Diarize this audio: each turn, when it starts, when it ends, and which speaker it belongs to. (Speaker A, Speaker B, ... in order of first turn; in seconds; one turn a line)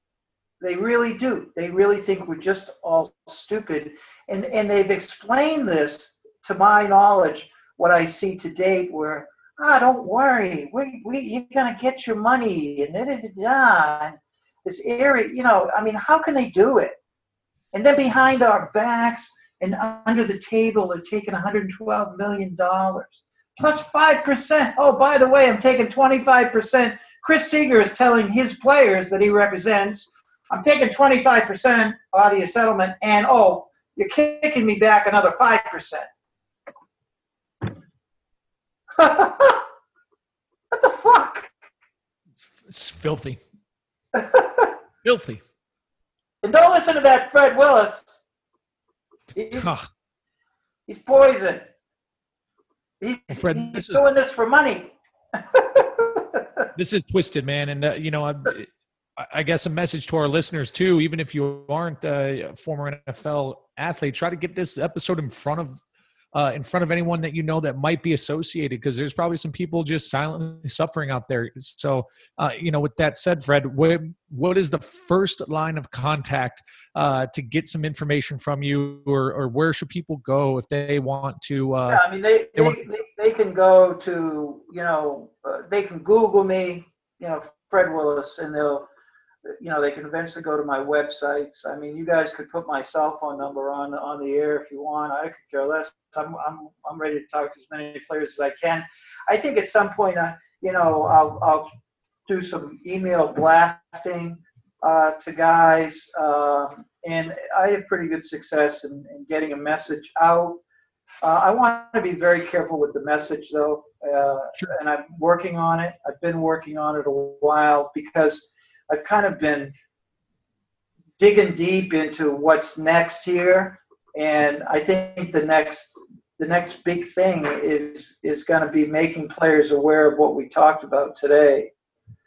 Speaker A: 0.6-17.0
Speaker A: 17.7-36.0
Speaker A: 39.0-39.6
Speaker A: 40.7-41.5
Speaker B: 42.6-43.4
Speaker A: 44.1-44.7
Speaker B: 45.0-45.4
Speaker A: 46.4-48.1
Speaker A: 49.3-49.7
Speaker B: 49.6-49.9
Speaker A: 50.9-51.7
Speaker A: 53.0-54.9
Speaker B: 53.3-54.0
Speaker A: 55.5-56.6
Speaker B: 56.8-65.8
Speaker B: 66.3-82.0
Speaker A: 81.9-88.9
Speaker A: 89.5-101.7
Speaker A: 102.3-110.6
Speaker A: 111.2-119.7
Speaker A: 121.2-131.7